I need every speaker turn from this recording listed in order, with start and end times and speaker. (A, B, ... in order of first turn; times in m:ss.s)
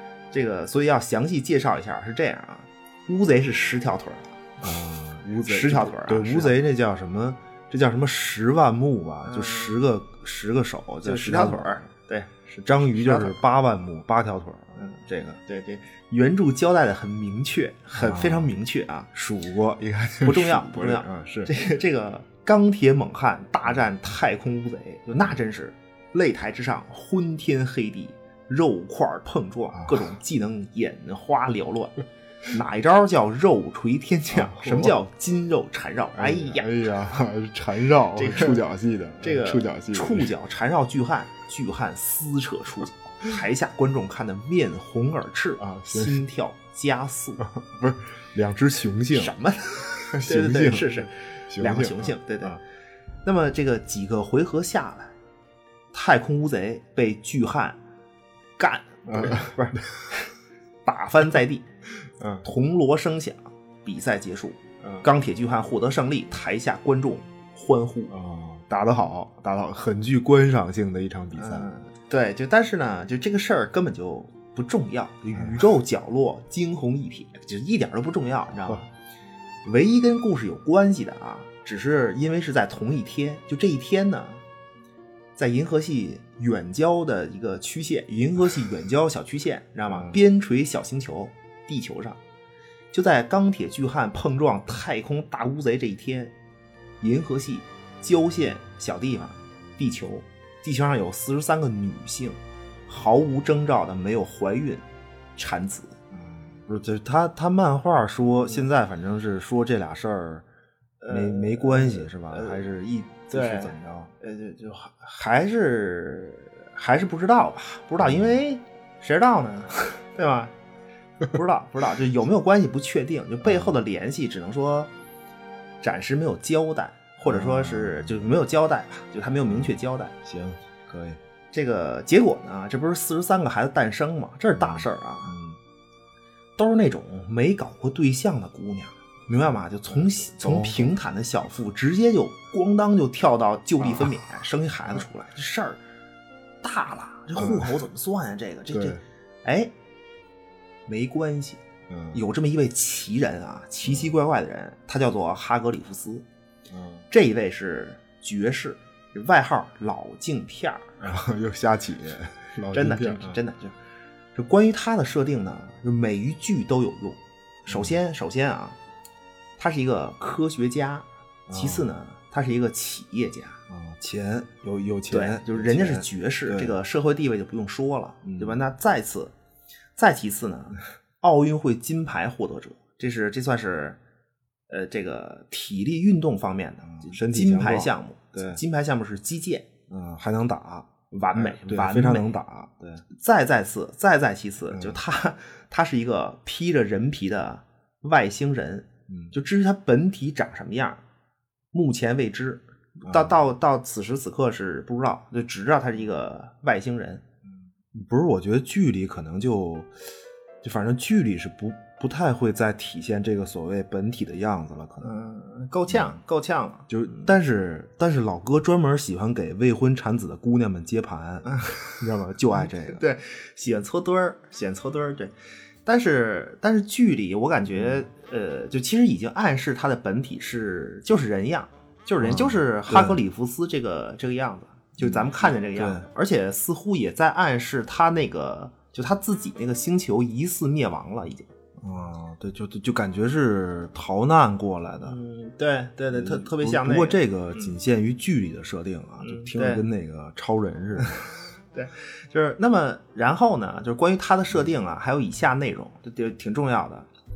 0:00.3-0:04.4 A
0:04.6-0:11.9 B
0:05.4-0:06.6 A
0:09.2-0:09.8 A
0:11.0-0:13.4 A
0:12.5-0:15.4 B
0:14.8-0:19.1 A
0:17.9-0:18.5 B
0:19.1-0:21.5 B
0:20.2-0:36.7 A
0:29.7-0:30.1 B
0:34.3-0:35.0 B
0:36.1-0:40.3 B
0:38.1-0:38.6 A
0:39.2-0:47.5 A
0:45.6-0:46.2 B
0:47.4-0:49.4 B
0:49.1-0:52.6 A
0:49.9-0:52.6 B
0:53.2-0:55.1 A
0:55.9-0:57.8 A
0:58.6-1:00.3 A
0:59.1-1:00.0 B
1:00.8-1:01.6 A
1:02.2-1:02.4 B
1:02.4-1:08.1 A
1:08.1-1:11.7 B
1:11.4-1:18.9 A
1:15.3-1:15.7 B
1:19.6-1:24.4 A
1:25.4-1:32.2 A
1:29.9-1:30.2 B
1:32.9-1:36.3 A
1:37.0-1:44.8 A
1:45.4-1:46.0 A
1:46.1-1:50.4 B
1:51.0-1:52.6 A
1:51.1-1:54.1 B
1:53.3-2:00.5 A
1:58.0-1:58.4 B
2:01.3-2:04.9 A
2:03.4-2:03.7 B
2:05.8-2:10.1 A
2:07.2-2:08.3 B
2:09.5-2:11.2 B
2:11.5-2:15.4 A
2:14.6-2:15.6 B
2:16.6-2:25.8 A
2:19.4-2:21.0 B
2:26.6-2:29.7 A
2:27.4-2:27.8 B
2:28.7-2:29.0 B
2:30.9-2:36.2 A
2:31.9-2:32.2 B
2:33.8-2:34.1 B
2:36.7-2:37.1 B
2:37.1-2:41.0 A
2:41.0-2:43.4 B
2:42.7-2:43.8 A
2:44.3-2:48.8 A
2:47.7-2:48.0 B
2:49.6-2:53.6 A
2:51.5-2:51.9 B
2:53.7-2:56.8 B
2:55.1-2:59.3 A
2:58.2-2:58.6 B
3:00.0-3:04.0 A
3:04.7-3:09.7 A
3:06.9-3:08.6 B
3:09.9-3:13.0 B
3:11.1-3:12.4 A
3:13.1-3:21.0 A
3:14.7-3:15.0 B
3:19.1-3:19.3 B
3:21.7-3:27.2 A
3:23.0-3:23.4 B
3:27.9-3:29.9 B
3:30.6-3:35.1 B
3:35.0-3:37.2 A
3:35.9-3:36.2 B
3:36.9-3:43.0 B
3:41.5-3:41.8 A
3:42.5-3:45.3 A
3:45.8-4:01.5 A
3:47.7-3:48.0 B
3:52.2-3:53.2 B
3:55.0-3:56.0 B
4:01.8-4:05.2 B
4:05.0-4:07.7 A
4:06.1-4:11.3 B
4:09.2-4:09.8 A
4:11.7-4:17.1 A